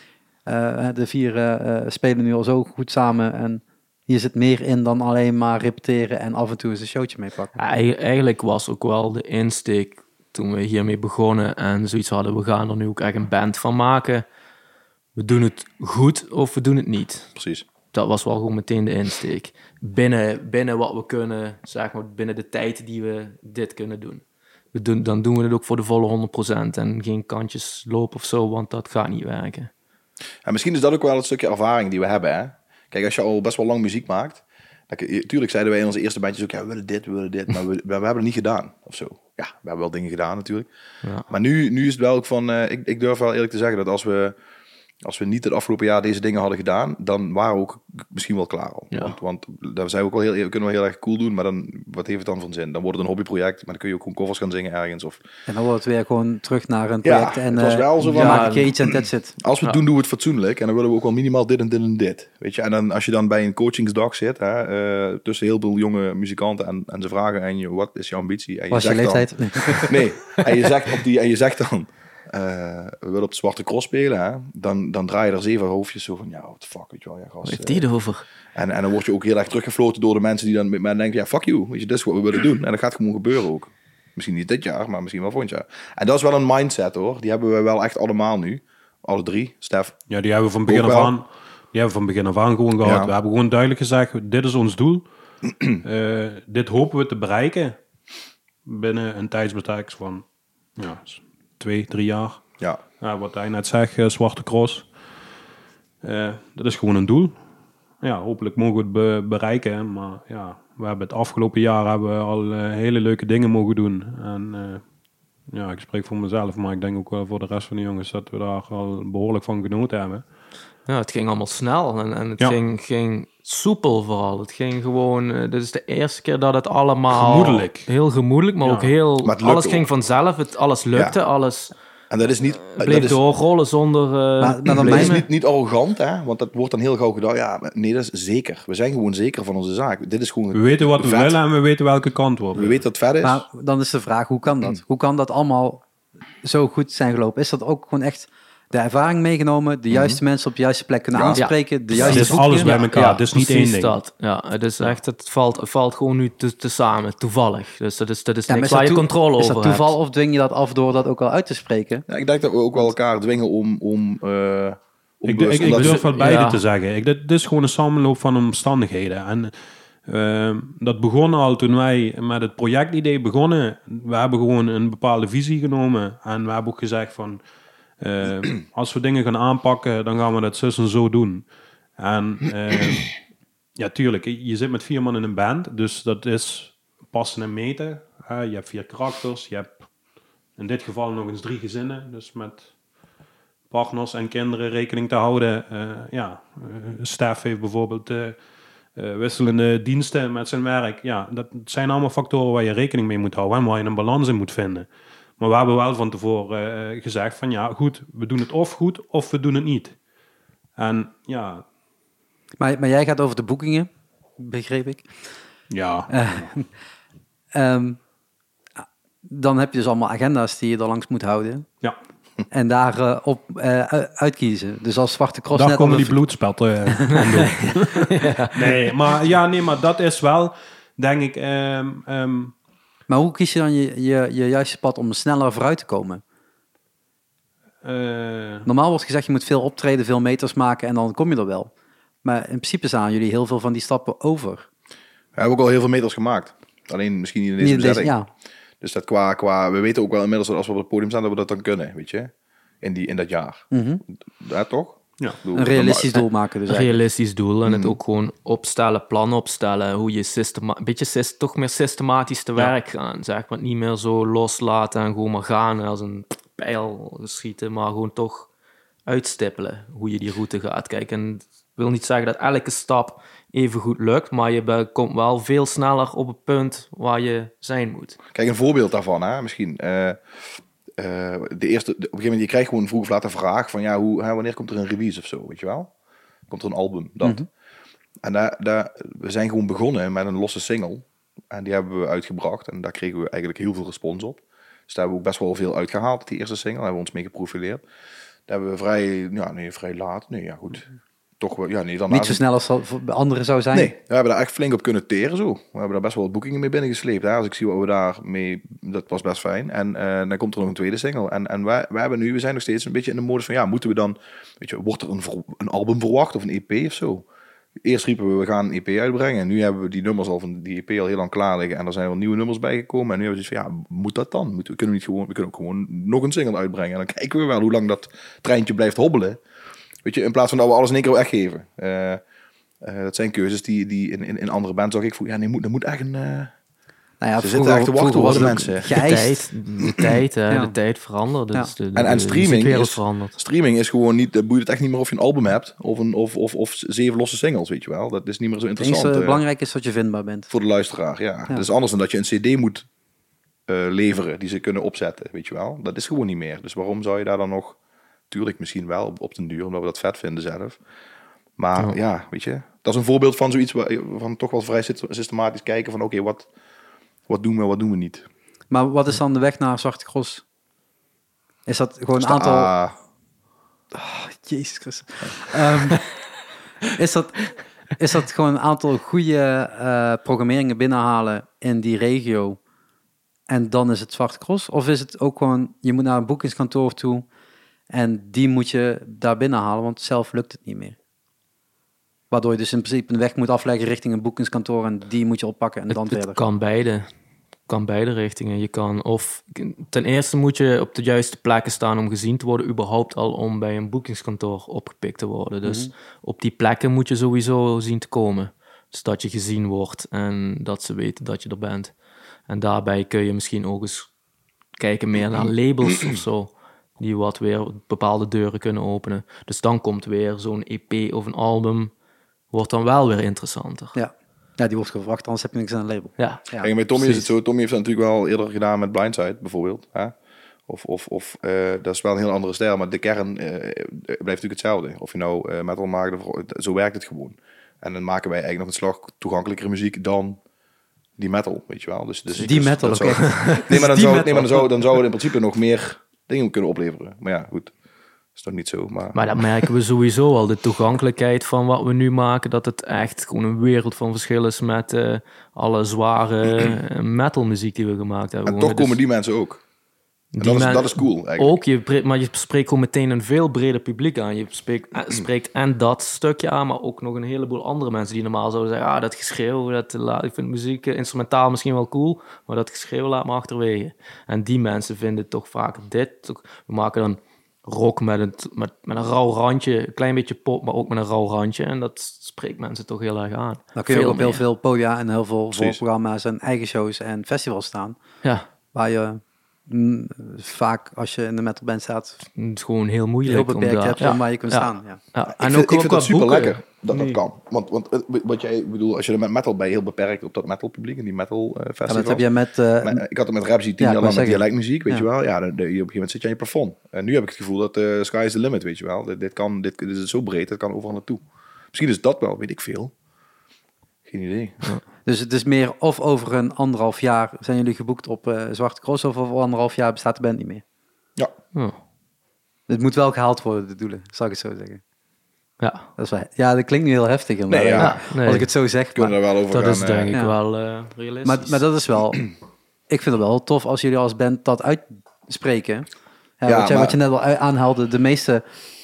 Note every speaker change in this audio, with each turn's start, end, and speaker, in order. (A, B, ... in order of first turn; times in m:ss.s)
0:00.4-0:07.6 A
0:07.6-0:14.2 B
0:15.2-0:17.3 B
0:17.4-0:17.6 C
0:17.9-0:24.2 B
0:24.7-0:29.7 B
0:30.4-0:40.7 C
0:41.3-0:44.3 C
0:45.0-0:55.2 C
0:55.5-0:59.4 A
0:57.0-0:58.7 C
0:58.0-0:58.7 B
0:59.4-1:17.8 C
1:08.7-1:10.4 A
1:17.4-1:18.2 B
1:18.5-1:30.0 C
1:30.1-1:35.0 D
1:30.6-1:31.1 C
1:32.8-1:33.1 C
1:35.8-1:37.8 D
1:38.6-1:40.2 D
1:40.8-1:42.4 D
1:43.0-1:44.9 D
1:46.0-1:47.3 D
1:48.0-1:54.8 D
1:55.5-2:00.2 D
2:00.8-2:11.7 B
2:07.1-2:07.9 D
2:08.6-2:08.9 D
2:09.2-2:09.8 C
2:12.1-2:13.2 C
2:12.7-2:15.2 B
2:14.4-2:15.2 A
2:14.8-2:21.4 C
2:20.5-2:22.8 D
2:22.5-2:23.4 C
2:23.2-2:25.8 A
2:26.4-2:32.7 A
2:29.9-2:30.2 C
2:31.1-2:31.4 C
2:31.3-2:40.0 B
2:32.0-2:33.9 D
2:38.5-2:42.0 A
2:42.1-2:46.1 C
2:45.2-2:49.5 D
2:45.6-2:46.6 B
2:50.0-2:57.4 D
2:58.0-3:03.2 D
3:03.8-3:09.9 D
3:10.6-3:12.7 D
3:13.7-3:18.4 D
3:19.0-3:24.9 D
3:25.4-3:30.0 D
3:30.8-3:31.6 D
3:32.6-3:35.1 A
3:35.7-3:36.5 D
3:36.1-3:36.7 A
3:37.5-3:38.0 A
3:39.2-3:41.7 A
3:42.5-3:46.2 A
3:45.5-3:52.5 D
3:48.1-3:48.7 B
3:53.1-3:56.2 A
3:57.8-3:58.7 D
3:58.6-4:01.7 A
4:02.2-4:04.7 A
4:05.3-4:08.1 C
4:07.6-4:08.3 A
4:08.8-4:16.2 C
4:13.7-4:14.0 A
4:15.5-4:16.9 A
4:16.7-4:28.5 B
4:17.6-4:18.0 C
4:29.0-4:38.2 B
4:38.3-4:40.2 C
4:41.0-4:45.9 C
4:46.5-4:47.4 C
4:47.2-4:47.5 A
4:48.2-4:57.8 C
4:58.5-5:00.9 C
5:01.4-5:02.4 C
5:02.1-5:03.9 A
5:03.7-5:17.2 C
5:17.8-5:29.4 C
5:30.0-5:32.2 C
5:32.8-5:36.5 C
5:37.2-5:39.5 A
5:37.4-5:39.0 C
5:38.3-5:43.4 B
5:39.8-5:40.1 C
5:40.5-5:40.7 A
5:41.9-5:49.4 C
5:48.8-5:50.5 A
5:50.5-5:52.9 C
5:53.7-5:57.8 C
5:58.3-6:00.8 C
6:01.6-6:06.5 C
6:07.3-6:08.2 C
6:08.7-6:10.4 A
6:11.6-6:12.7 A
6:12.2-6:12.9 C
6:13.9-6:16.1 A
6:16.9-6:22.6 A
6:23.5-6:27.2 A
6:27.9-6:31.0 A
6:32.3-6:36.4 A
6:35.9-6:37.1 B
6:37.7-6:51.9 B
6:45.6-6:45.9 A
6:52.5-6:54.1 B
6:54.8-7:01.9 B
7:02.5-7:04.0 B
7:03.9-7:06.7 A
7:06.2-7:06.4 B
7:06.6-7:10.1 C
7:07.0-7:07.3 B
7:10.7-7:20.4 C
7:21.2-7:27.7 C
7:22.3-7:23.6 B
7:22.4-7:24.7 A
7:28.4-7:29.7 C
7:29.1-7:39.0 B
7:38.4-7:39.6 C
7:40.3-8:04.4 B
7:40.4-7:41.6 C
8:03.8-8:08.0 A
8:05.5-8:05.8 C
8:08.7-8:12.2 A
8:12.4-8:16.6 B
8:13.3-8:15.0 A
8:15.3-8:22.2 C
8:16.9-8:17.2 D
8:21.9-8:23.0 A
8:22.8-8:32.9 C
8:23.8-8:25.0 A
8:34.1-8:34.7 C
8:35.0-8:40.6 A
8:41.5-8:41.8 B
8:42.7-8:44.8 A
8:45.6-8:45.8 B
8:46.0-8:49.2 A
8:47.5-8:48.0 C
8:47.8-8:48.5 B
8:48.9-8:50.1 C
8:49.5-8:51.6 B
8:51.2-8:52.2 A
8:52.9-8:55.9 A
8:56.4-8:58.4 A
8:56.4-8:57.0 C